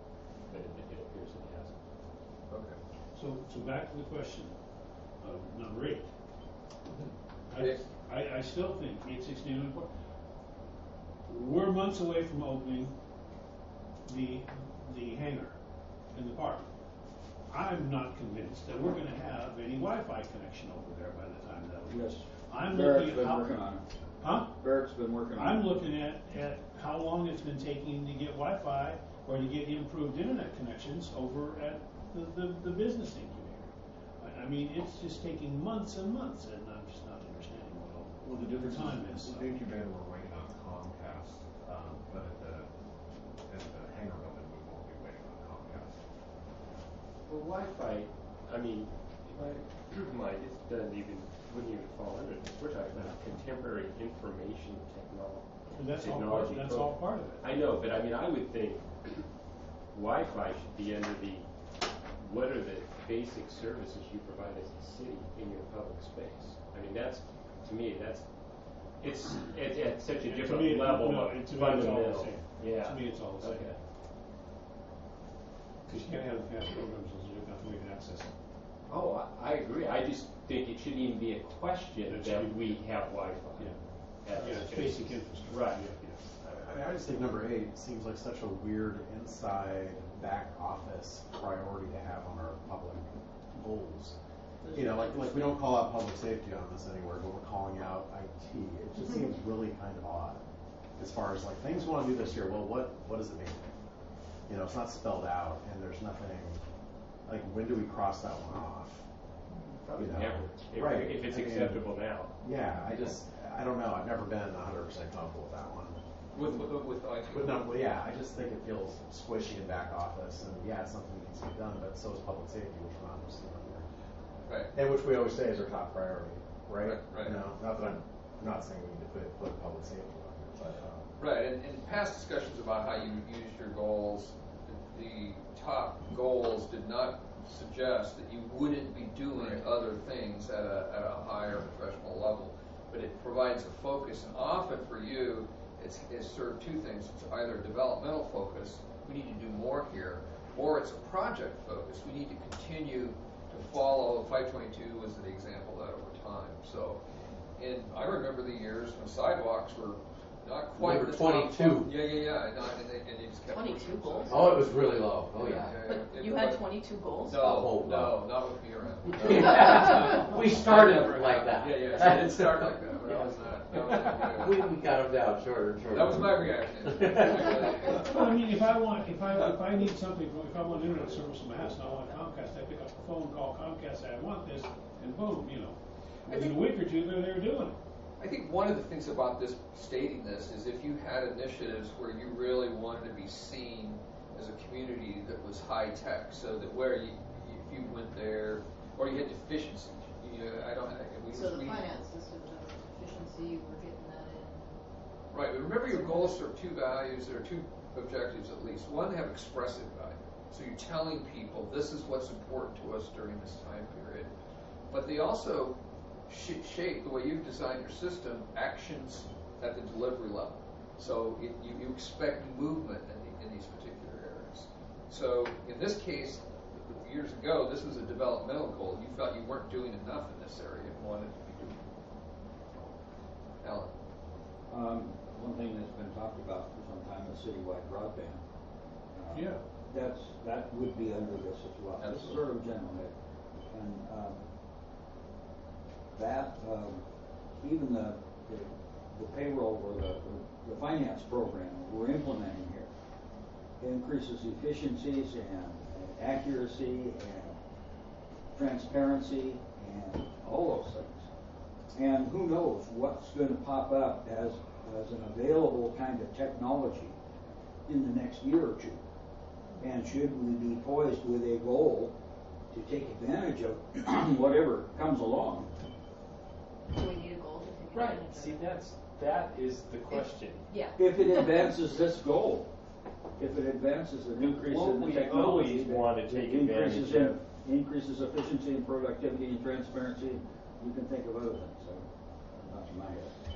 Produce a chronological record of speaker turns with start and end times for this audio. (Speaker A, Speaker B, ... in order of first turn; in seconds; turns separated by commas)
Speaker A: 0.5-1.8, Speaker B: 2.5-2.8, Speaker C: 3.1-4.5, Speaker C: 5.2-6.1, Speaker B: 6.9-7.8, Speaker C: 7.5-9.9, Speaker C: 11.3-12.9, Speaker C: 14.1-15.6, Speaker C: 16.1-16.7, Speaker C: 17.5-23.7, Speaker D: 21.9-23.9, Speaker C: 24.2-24.6, Speaker D: 24.6-25.7, Speaker C: 25.4-39.5, Speaker E: 38.2-42.6, Speaker F: 39.2-39.6, Speaker E: 43.5-45.9, Speaker F: 43.7-44.0, Speaker A: 47.2-59.3, Speaker C: 55.7-57.6, Speaker A: 59.9-61.5, Speaker A: 62.2-73.8, Speaker C: 70.2-73.7, Speaker C: 75.9-78.3, Speaker A: 78.9-85.8, Speaker C: 82.0-82.8, Speaker C: 84.3-86.2, Speaker F: 86.4-94.2, Speaker F: 94.7-100.4, Speaker F: 101.0-103.6, Speaker F: 104.5-106.6, Speaker F: 107.2-109.0, Speaker A: 109.8-112.3, Speaker F: 110.0-116.7, Speaker B: 116.3-117.7, Speaker F: 117.3-123.9, Speaker F: 124.7-131.1, Speaker B: 126.8-127.4, Speaker B: 131.2-157.0, Speaker B: 157.6-174.7, Speaker G: 160.8-161.9, Speaker H: 163.5-164.2, Speaker G: 164.2-165.8, Speaker H: 165.8-167.4, Speaker G: 167.4-168.3, Speaker G: 169.1-178.0, Speaker B: 175.9-178.4, Speaker C: 178.1-187.8, Speaker B: 186.3-186.5, Speaker B: 188.2-202.0, Speaker H: 201.3-204.8, Speaker B: 205.3-214.3, Speaker H: 205.9-206.4, Speaker B: 214.9-215.8, Speaker B: 216.3-231.8, Speaker B: 233.6-233.9, Speaker D: 234.7-238.4, Speaker D: 239.1-243.1, Speaker C: 239.3-239.6, Speaker B: 242.0-242.4, Speaker D: 243.7-244.4, Speaker D: 246.1-247.0, Speaker D: 247.6-252.9, Speaker D: 253.8-257.6, Speaker D: 258.5-261.2, Speaker D: 261.9-267.1, Speaker D: 267.9-269.0, Speaker D: 269.8-272.1, Speaker D: 272.7-275.7, Speaker H: 276.9-278.6, Speaker A: 277.9-280.6, Speaker H: 280.7-281.6, Speaker D: 281.0-282.7, Speaker D: 283.4-292.1, Speaker A: 284.5-287.4, Speaker D: 292.6-293.3